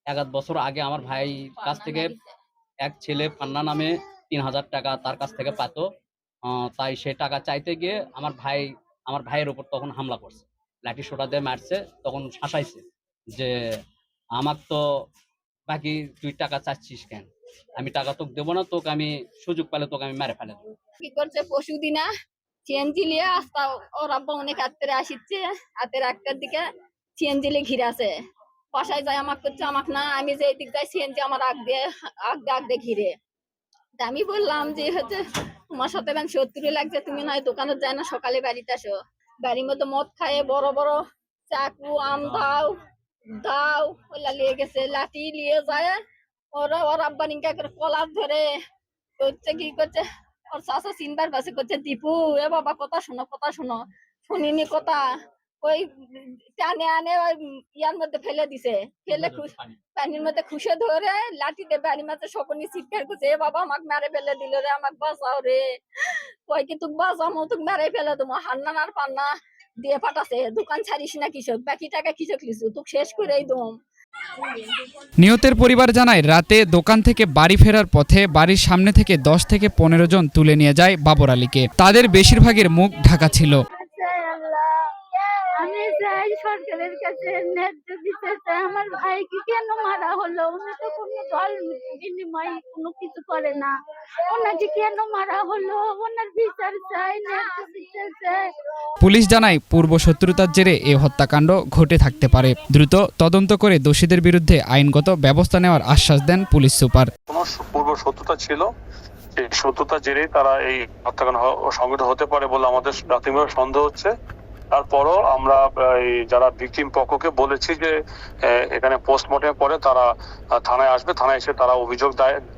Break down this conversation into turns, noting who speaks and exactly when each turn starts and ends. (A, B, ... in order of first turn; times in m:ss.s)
0:00.1-0:02.2 A
0:01.7-0:02.2 B
0:02.8-0:05.8 A
0:06.5-0:13.5 A
0:14.4-0:14.8 A
0:15.7-0:17.2 A
0:17.8-0:20.6 A
0:21.0-0:22.1 B
0:22.6-0:26.6 B
0:27.2-0:28.1 B
0:28.7-0:33.1 B
0:34.0-0:35.2 B
0:35.7-0:41.0 B
0:41.5-0:42.7 B
0:43.4-0:45.9 B
0:46.5-0:48.4 B
0:49.2-0:55.0 B
0:55.6-1:05.6 B
0:59.1-0:59.8 A
1:06.5-1:09.3 B
1:09.8-1:13.7 B
1:15.2-1:23.6 C
1:23.7-1:33.7 D
1:34.3-1:38.5 D
1:39.0-1:47.1 C
1:47.3-1:48.7 E
1:49.4-1:54.1 E
1:54.7-1:57.9 E
1:58.4-2:00.0 E
2:00.6-2:02.3 E